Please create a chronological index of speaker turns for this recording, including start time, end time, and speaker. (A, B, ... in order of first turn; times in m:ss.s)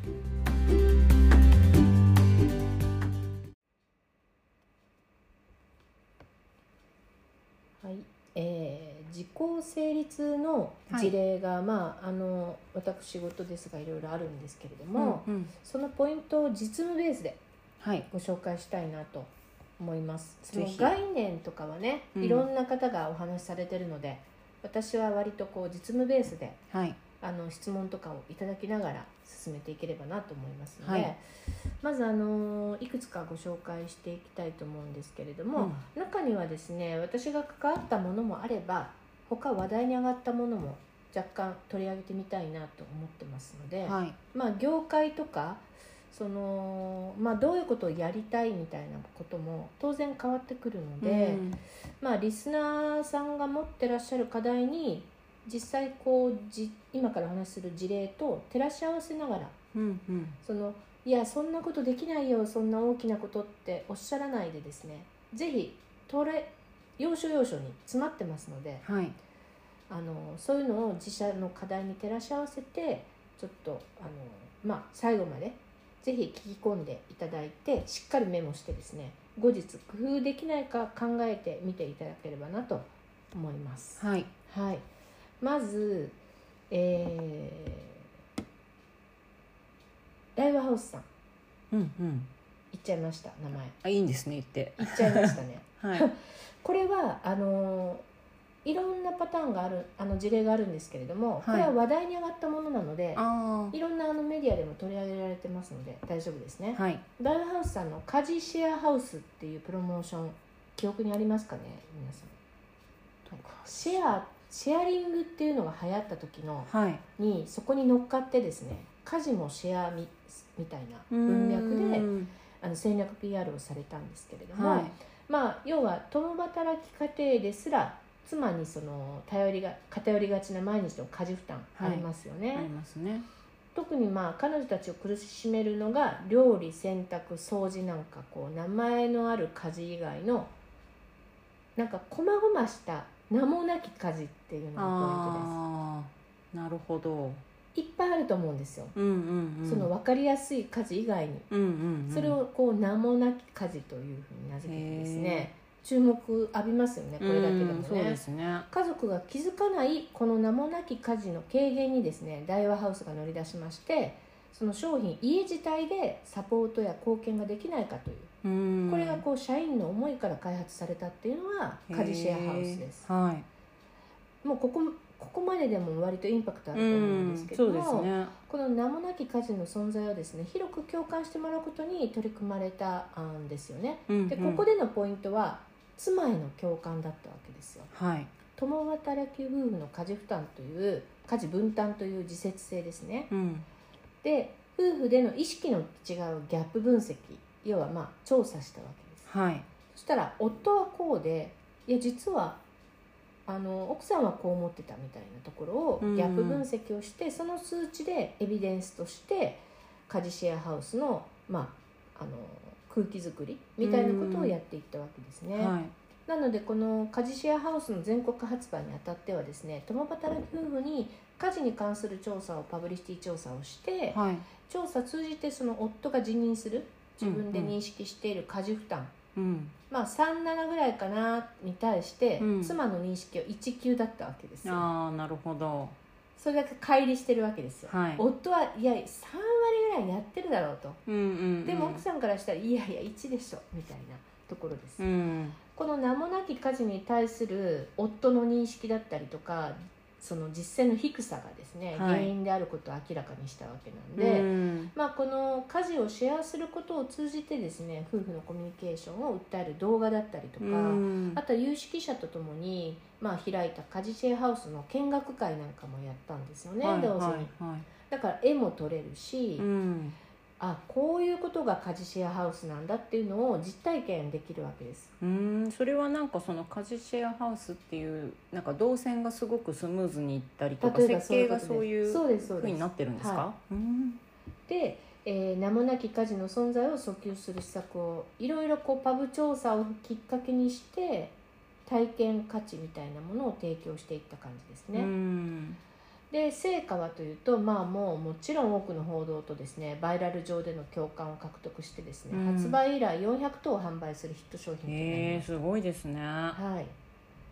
0:07.8-0:17.4 A
0:15.0-0:15.5 B
0:17.8-0:18.0 B
0:18.0-0:26.6 A
0:20.5-0:20.9 B
0:22.2-0:22.5 B
0:26.7-0:27.0 B
0:27.2-0:31.2 A
0:30.8-0:31.1 B
0:31.8-0:51.4 A
0:35.6-0:35.8 B
0:43.8-0:44.2 B
0:51.0-0:51.6 B
0:52.0-0:59.5 A
0:59.7-1:00.4 B
1:00.4-1:08.8 A
1:08.8-1:09.2 B
1:09.9-1:24.9 A
1:24.0-1:24.3 B
1:25.4-1:26.2 A
1:26.7-1:28.0 A
1:30.4-1:31.0 A
1:31.7-1:32.3 B
1:32.7-1:33.7 A
1:33.8-1:36.1 B
1:34.8-1:38.0 A
1:38.6-1:52.4 A
1:41.4-1:41.7 B
1:43.1-1:43.8 B
1:46.7-1:47.0 B
1:53.3-2:12.7 A
1:53.3-1:54.1 B
1:56.6-1:57.0 B
2:01.1-2:02.3 B
2:04.5-2:04.9 B
2:11.8-2:13.2 B
2:13.7-2:20.5 A
2:21.8-2:25.6 A
2:24.8-2:27.4 B
2:27.7-2:28.9 A
2:28.9-2:29.9 B
2:29.6-2:31.5 A
2:31.5-2:32.4 B
2:32.1-2:48.3 A
2:34.6-2:35.5 B
2:37.2-2:38.7 B
2:48.4-2:49.2 B
2:48.9-2:53.1 A
2:51.9-2:53.5 B
2:54.4-3:07.9 A
2:56.7-2:58.3 B
3:04.1-3:04.6 B
3:07.9-3:08.3 B
3:08.5-3:13.3 A
3:13.3-3:13.6 B
3:14.2-3:19.2 A
3:19.2-3:19.7 B
3:19.9-3:22.6 A
3:23.5-3:35.8 A
3:26.0-3:26.6 B
3:33.8-3:34.6 B
3:35.6-3:35.9 B
3:36.3-3:49.1 A
3:44.1-3:44.5 B
3:47.2-3:47.7 B
3:49.3-3:49.7 B
3:49.9-3:54.9 A
3:52.4-3:52.8 B
3:54.6-3:56.0 B
3:56.4-4:01.0 A
3:57.9-3:58.2 B
4:01.0-4:02.0 B
4:01.6-4:05.0 A
4:05.0-4:05.6 B
4:05.7-4:27.5 A
4:11.9-4:12.3 B
4:14.2-4:14.9 B
4:20.6-4:21.4 B
4:26.8-4:27.9 B
4:28.1-4:29.7 A
4:29.6-4:30.2 B
4:30.6-4:35.1 A
4:35.2-4:44.2 B
4:40.8-4:43.5 A
4:44.7-4:55.1 A
4:54.9-4:55.8 B
4:56.3-5:05.5 A
5:02.3-5:02.8 B
5:04.8-5:06.6 B
5:06.5-5:06.9 A